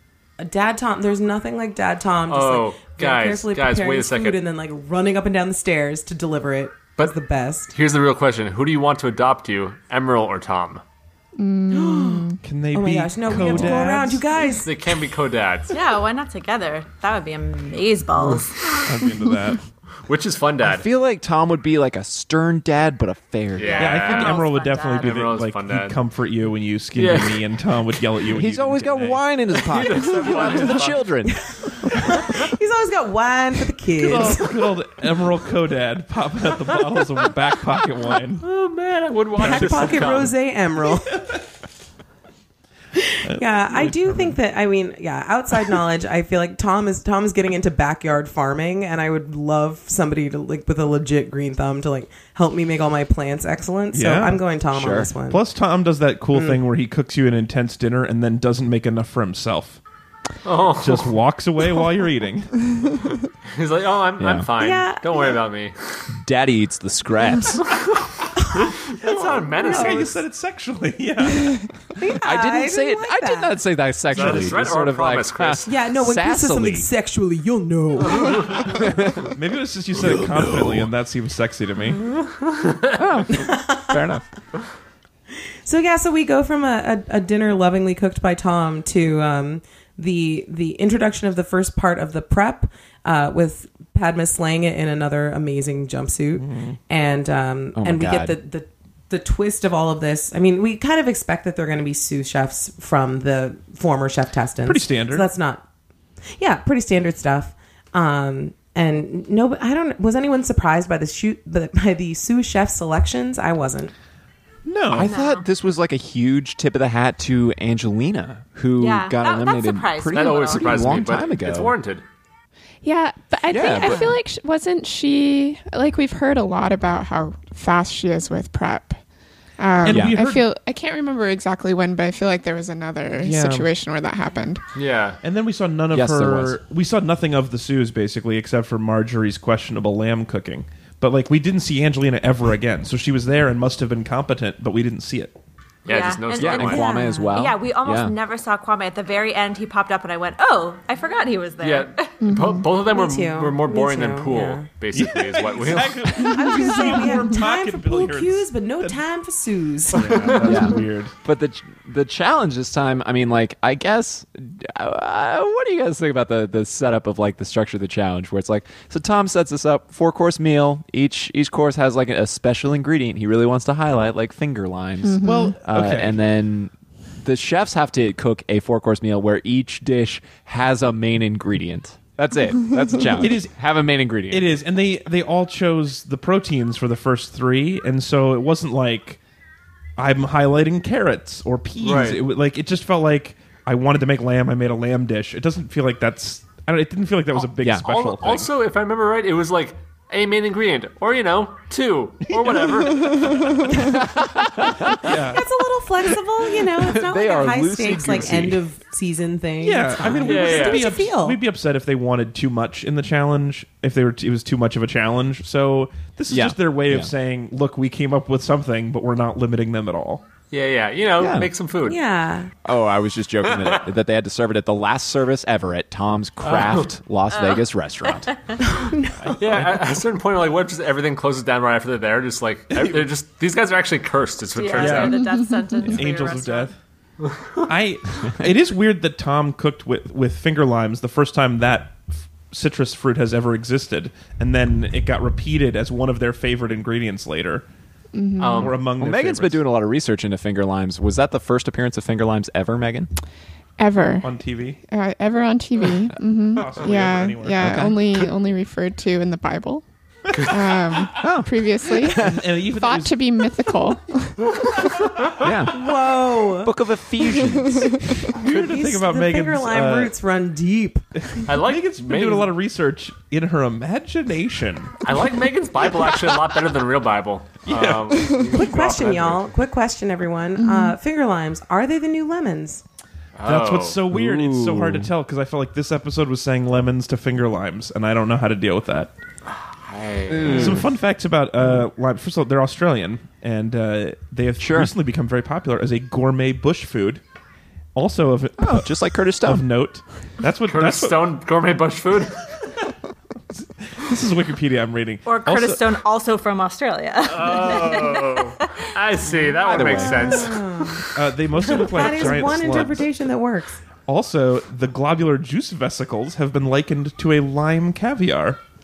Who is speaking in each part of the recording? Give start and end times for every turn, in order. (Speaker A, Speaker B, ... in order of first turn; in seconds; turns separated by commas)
Speaker A: 0.4-7.7, Speaker B: 2.3-4.4, Speaker B: 7.7-10.8, Speaker C: 11.4-12.4, Speaker A: 11.7-14.9, Speaker D: 12.4-14.3, Speaker B: 14.6-15.8, Speaker E: 15.7-18.8, Speaker D: 18.4-19.6, Speaker B: 20.1-20.9, Speaker F: 20.6-24.2, Speaker B: 23.6-24.4, Speaker E: 23.6-25.2, Speaker D: 23.8-29.2, Speaker B: 24.9-26.0, Speaker B: 27.0-27.4, Speaker F: 28.3-31.4, Speaker B: 29.5-31.1, Speaker D: 30.4-30.8, Speaker A: 31.8-34.6, Speaker D: 34.0-38.4, Speaker B: 38.4-40.3, Speaker D: 39.4-40.1, Speaker A: 39.4-41.3, Speaker A: 43.0-55.4, Speaker D: 43.2-44.4, Speaker D: 53.9-54.4, Speaker F: 54.7-55.1, Speaker D: 55.3-59.8, Speaker A: 56.3-56.6, Speaker B: 60.4-61.1, Speaker D: 60.8-62.5, Speaker B: 63.5-65.8, Speaker F: 64.2-64.5, Speaker A: 64.6-65.4, Speaker F: 66.1-67.7, Speaker B: 67.7-68.0, Speaker A: 68.3-70.1, Speaker B: 68.8-70.2, Speaker D: 69.6-71.7, Speaker A: 72.0-73.6, Speaker F: 72.2-76.9, Speaker B: 74.1-75.7, Speaker D: 74.2-74.5, Speaker A: 75.7-78.7, Speaker B: 78.1-78.7, Speaker F: 78.6-79.3, Speaker D: 79.2-82.1, Speaker F: 80.0-80.9, Speaker B: 82.3-82.9, Speaker F: 82.9-84.3, Speaker A: 83.3-84.0, Speaker A: 85.6-105.6, Speaker D: 96.4-96.8, Speaker F: 97.7-98.4, Speaker D: 104.6-105.3, Speaker A: 106.3-113.9, Speaker D: 114.6-115.1, Speaker F: 114.9-121.7, Speaker E: 115.0-115.4, Speaker E: 118.8-121.0, Speaker B: 120.1-122.0, Speaker C: 122.8-129.0, Speaker F: 123.5-124.2, Speaker E: 123.6-124.2, Speaker C: 129.6-134.6, Speaker D: 129.8-130.5, Speaker F: 129.8-130.2, Speaker D: 133.1-133.7, Speaker B: 134.7-135.2, Speaker D: 135.2-145.3, Speaker F: 135.9-136.6, Speaker B: 145.8-146.9, Speaker E: 145.8-152.2, Speaker F: 146.3-148.1, Speaker B: 151.6-156.3, Speaker C: 152.2-152.6, Speaker A: 152.8-154.7, Speaker D: 154.9-159.0, Speaker A: 156.2-160.5, Speaker C: 156.8-157.2, Speaker D: 159.9-161.1, Speaker F: 160.4-176.7, Speaker C: 175.1-175.6, Speaker D: 175.2-176.2, Speaker F: 177.2-184.5, Speaker D: 183.1-183.5, Speaker D: 184.3-189.2, Speaker D: 190.0-198.5, Speaker B: 191.8-192.2, Speaker F: 197.6-197.9, Speaker B: 197.8-203.7, Speaker D: 202.4-203.3, Speaker F: 203.8-205.2, Speaker D: 204.9-205.4, Speaker A: 205.2-211.4, Speaker F: 206.6-208.6, Speaker D: 209.6-220.2, Speaker B: 210.2-210.8, Speaker F: 216.3-217.1, Speaker B: 220.5-222.0, Speaker F: 221.2-221.5, Speaker A: 221.8-222.5, Speaker F: 222.6-228.3, Speaker B: 223.4-223.8, Speaker B: 226.4-226.9, Speaker E: 227.3-228.6, Speaker A: 228.6-229.4, Speaker D: 229.2-229.8, Speaker B: 229.4-235.2, Speaker D: 232.7-233.1, Speaker E: 234.5-236.7, Speaker D: 234.8-235.2, Speaker C: 235.2-235.6, Speaker D: 235.8-236.7, Speaker D: 237.7-247.7, Speaker C: 248.1-248.8, Speaker B: 248.4-248.8, Speaker D: 248.6-249.6, Speaker F: 249.0-253.1, Speaker C: 253.8-264.8, Speaker D: 254.2-254.8, Speaker D: 256.5-257.9, Speaker F: 257.6-258.3, Speaker F: 261.1-262.4, Speaker D: 262.1-263.2, Speaker F: 265.4-265.8, Speaker A: 265.7-266.7, Speaker F: 266.6-268.1, Speaker C: 267.5-267.9, Speaker D: 268.3-270.1, Speaker A: 268.4-271.0, Speaker D: 271.2-275.0, Speaker B: 271.5-272.5, Speaker B: 275.0-279.5, Speaker D: 277.6-278.4, Speaker A: 278.5-282.8, Speaker C: 280.6-281.0, Speaker B: 283.4-284.0, Speaker D: 283.4-289.1, Speaker F: 284.1-285.1, Speaker B: 289.6-290.8, Speaker F: 290.3-290.9, Speaker D: 290.4-297.2, Speaker F: 294.6-294.9, Speaker D: 297.9-301.3, Speaker F: 298.6-299.6, Speaker B: 300.7-302.4, Speaker D: 303.5-305.8, Speaker E: 305.2-308.9, Speaker B: 307.3-311.0, Speaker F: 309.6-310.4, Speaker A: 309.7-311.0, Speaker D: 311.1-313.1, Speaker A: 311.6-313.8, Speaker D: 314.1-318.6